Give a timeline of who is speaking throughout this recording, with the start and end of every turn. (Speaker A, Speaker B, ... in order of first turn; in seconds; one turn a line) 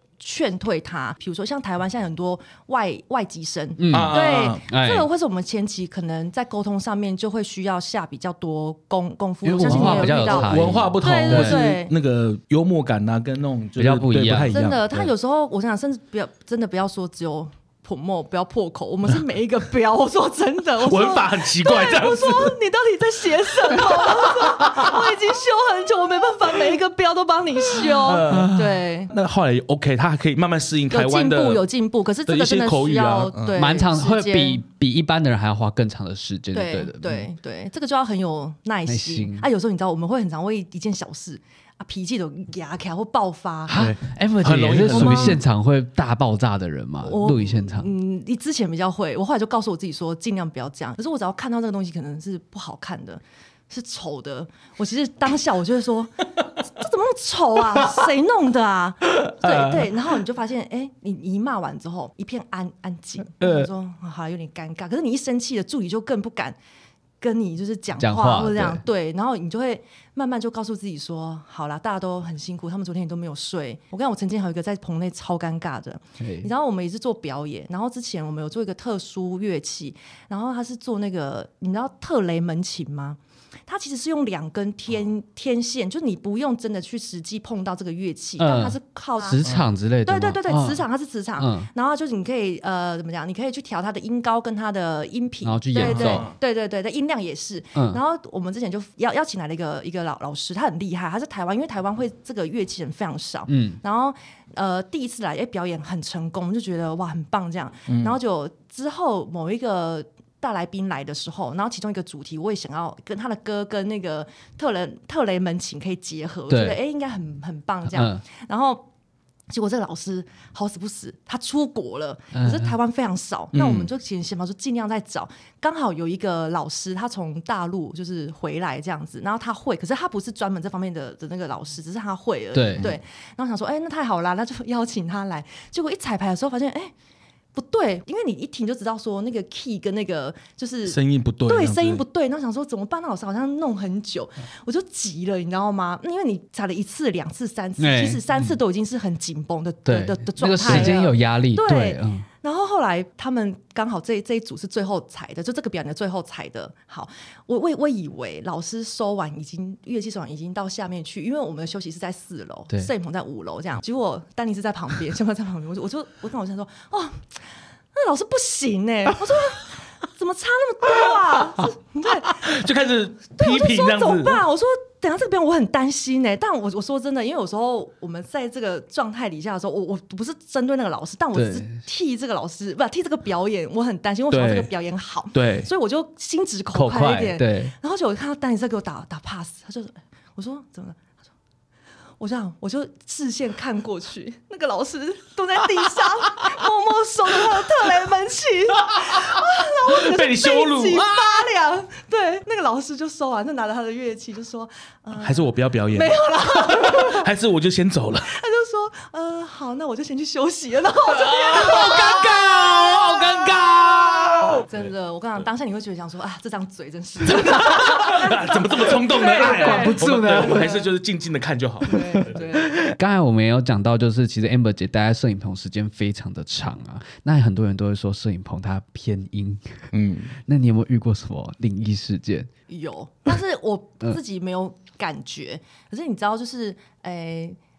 Speaker A: 0.2-11.9
Speaker B: 3.8-5.1
Speaker C: 3.9-4.6
Speaker B: 9.4-11.7
Speaker C: 9.6-15.0
Speaker B: 13.8-14.7
Speaker A: 14.5-29.1
Speaker C: 20.8-22.6
Speaker C: 27.9-31.6
Speaker A: 30.9-34.6
Speaker C: 32.3-33.6
Speaker B: 33.6-37.3
Speaker A: 36.5-43.8
Speaker B: 38.9-39.5
Speaker B: 43.7-47.9
Speaker C: 43.7-45.4
Speaker A: 44.9-45.4
Speaker A: 47.0-66.6
Speaker B: 59.2-59.9
Speaker B: 63.4-63.7
Speaker A: 67.2-89.5
Speaker B: 68.0-68.8
Speaker B: 76.2-76.5
Speaker B: 88.4-90.8
Speaker C: 89.4-89.7
Speaker A: 90.0-118.9
Speaker B: 91.4-91.7
Speaker B: 95.5-96.3
Speaker C: 95.8-96.3
Speaker B: 97.8-98.0
Speaker B: 103.5-103.8
Speaker C: 107.9-108.2
Speaker B: 116.5-116.8
Speaker B: 117.9-118.2
Speaker A: 119.5-136.9
Speaker B: 122.3-122.8
Speaker C: 123.5-123.9
Speaker B: 132.5-132.9
Speaker A: 137.6-172.7
Speaker C: 140.9-142.0
Speaker B: 147.8-148.2
Speaker B: 149.9-152.3
Speaker C: 150.6-150.9
Speaker C: 172.3-174.4
Speaker A: 173.3-191.1
Speaker B: 181.3-181.8
Speaker C: 184.3-184.7
Speaker C: 185.3-185.7
Speaker B: 186.7-187.7
Speaker A: 192.2-207.3
Speaker C: 198.9-201.4
Speaker C: 205.2-208.3
Speaker A: 208.2-213.8
Speaker C: 211.2-214.8
Speaker B: 211.5-212.1
Speaker A: 214.5-220.7
Speaker C: 217.3-222.4
Speaker B: 219.2-220.9
Speaker A: 221.8-222.8
Speaker B: 222.0-229.9
Speaker C: 229.9-230.3
Speaker B: 230.5-232.5
Speaker A: 232.7-237.6